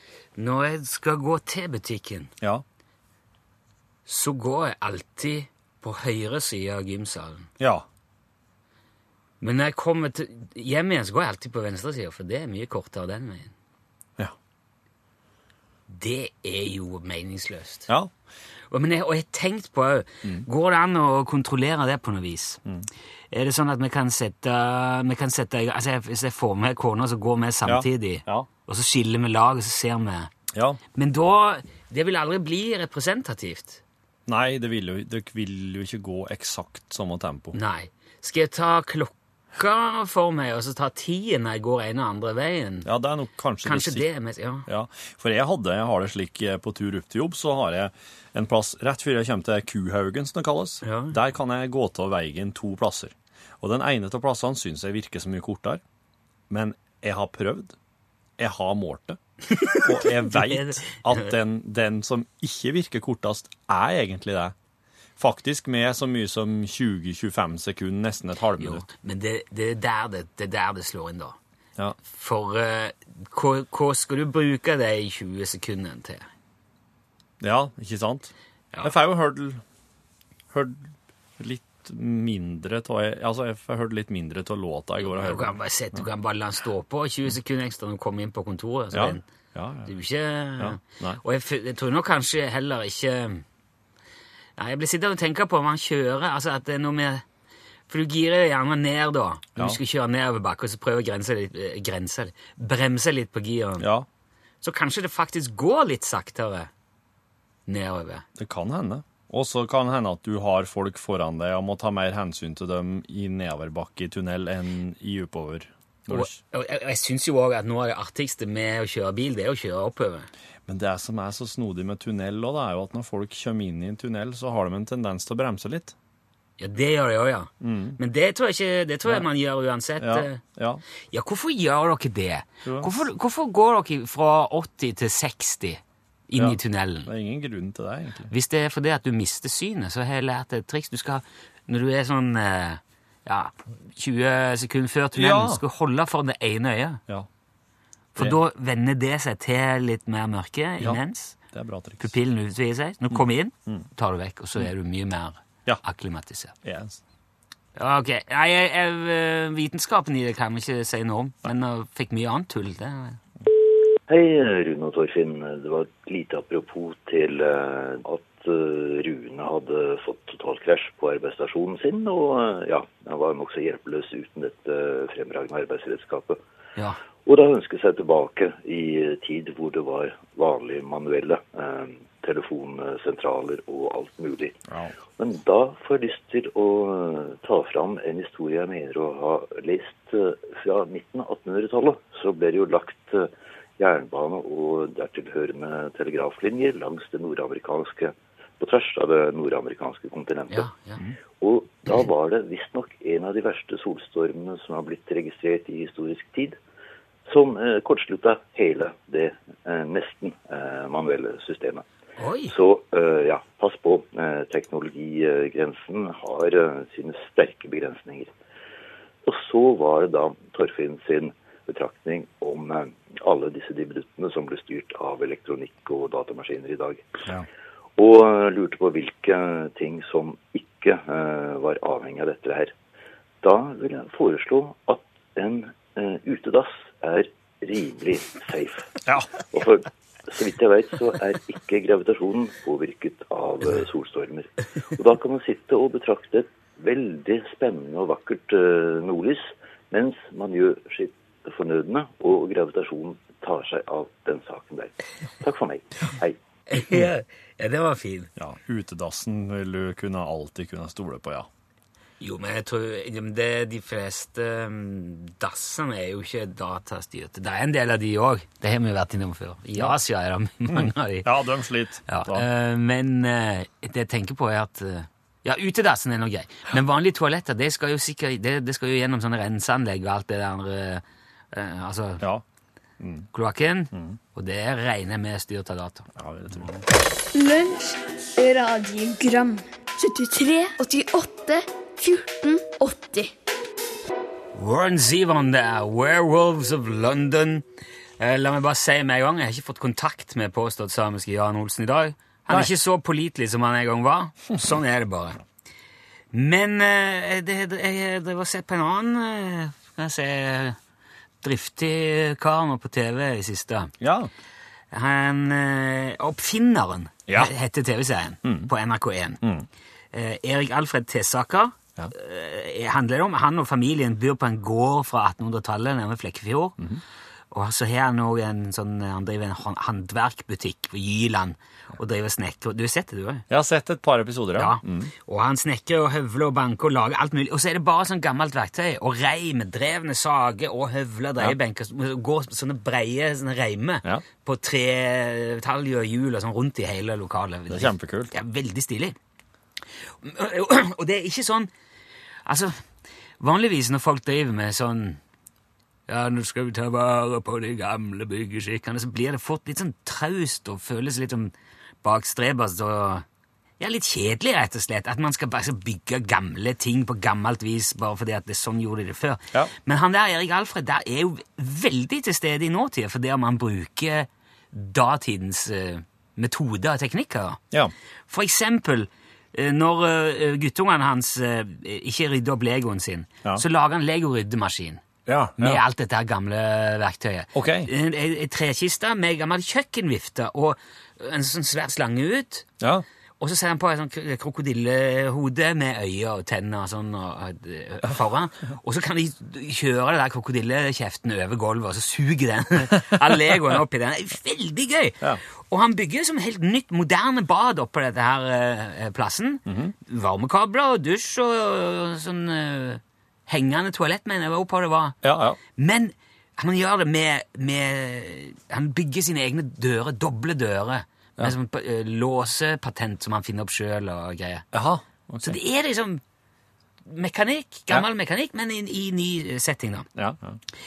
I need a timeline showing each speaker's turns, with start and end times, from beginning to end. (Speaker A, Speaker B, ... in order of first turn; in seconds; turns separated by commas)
Speaker A: 0.3-2.3, Speaker A: 4.1-7.5, Speaker B: 7.6-7.8, Speaker A: 9.4-13.5, Speaker A: 15.9-17.9, Speaker A: 18.7-22.6, Speaker A: 23.3-30.3, Speaker B: 27.6-28.5, Speaker B: 30.5-30.8, Speaker A: 30.9-33.8, Speaker B: 34.3-37.6, Speaker A: 37.5-42.9, Speaker B: 42.8-44.1, Speaker A: 43.6-44.7, Speaker B: 44.6-55.8, Speaker A: 50.8-51.2, Speaker B: 56.5-57.8, Speaker B: 58.4-59.2, Speaker A: 59.5-61.3, Speaker B: 59.8-64.5, Speaker B: 65.2-68.8, Speaker A: 68.6-71.4, Speaker A: 72.0-76.3, Speaker B: 77.4-79.6, Speaker B: 80.5-86.0, Speaker A: 85.0-89.2, Speaker B: 88.9-89.9, Speaker A: 89.8-93.4, Speaker B: 90.6-91.2, Speaker A: 94.6-97.2, Speaker A: 97.9-103.9, Speaker B: 103.8-104.1, Speaker A: 104.6-106.7, Speaker A: 107.7-108.2, Speaker B: 108.4-116.4, Speaker A: 116.1-120.3, Speaker B: 120.7-125.9, Speaker A: 126.6-130.4, Speaker B: 127.6-128.0, Speaker B: 130.0-130.8, Speaker A: 131.1-137.1, Speaker B: 132.6-133.0, Speaker B: 136.3-138.3, Speaker A: 138.3-147.0, Speaker B: 145.1-145.6, Speaker A: 148.1-151.4, Speaker B: 151.5-152.1, Speaker A: 152.0-156.6, Speaker B: 153.1-153.9, Speaker B: 156.6-157.0, Speaker A: 157.8-163.2, Speaker C: 164.1-176.4, Speaker C: 177.2-184.6, Speaker B: 184.7-184.9, Speaker C: 185.2-200.7, Speaker A: 200.5-201.0, Speaker C: 201.4-206.6, Speaker C: 207.2-211.8, Speaker A: 212.2-212.5, Speaker C: 212.5-218.3, Speaker C: 219.2-227.1, Speaker C: 228.0-232.7, Speaker C: 233.4-238.9, Speaker B: 239.0-239.3, Speaker C: 239.5-256.4, Speaker A: 256.7-258.3, Speaker B: 258.4-261.5, Speaker A: 262.2-271.3, Speaker B: 270.7-272.4, Speaker A: 272.1-282.2, Speaker B: 283.0-283.3, Speaker A: 283.3-286.8, Speaker B: 283.9-284.2, Speaker B: 286.1-286.7, Speaker D: 287.3-293.3, Speaker A: 294.5-297.6, Speaker A: 298.2-305.4, Speaker A: 306.3-310.8, Speaker A: 311.4-313.9, Speaker B: 314.0-314.3, Speaker A: 314.9-319.4, Speaker B: 317.3-317.5, Speaker B: 318.4-318.7, Speaker B: 319.4-319.7, Speaker A: 320.1-326.8, Speaker A: 327.5-333.5, Speaker B: 333.5-335.1, Speaker A: 334.6-349.1, Speaker B: 347.7-348.3, Speaker A: 350.2-351.7, Speaker A: 352.4-352.8, Speaker A: 353.4-355.2, Speaker A: 356.1-363.2, Speaker A: 363.8-377.6, Speaker A: 378.3-385.0, Speaker B: 385.2-385.8, Speaker A: 385.6-392.7, Speaker B: 387.5-387.9, Speaker B: 392.8-393.0, Speaker A: 393.4-415.2, Speaker B: 409.6-409.9, Speaker B: 415.2-415.6, Speaker A: 415.8-424.7, Speaker B: 424.7-425.6, Speaker A: 425.4-426.2, Speaker A: 427.1-430.1, Speaker B: 430.1-430.6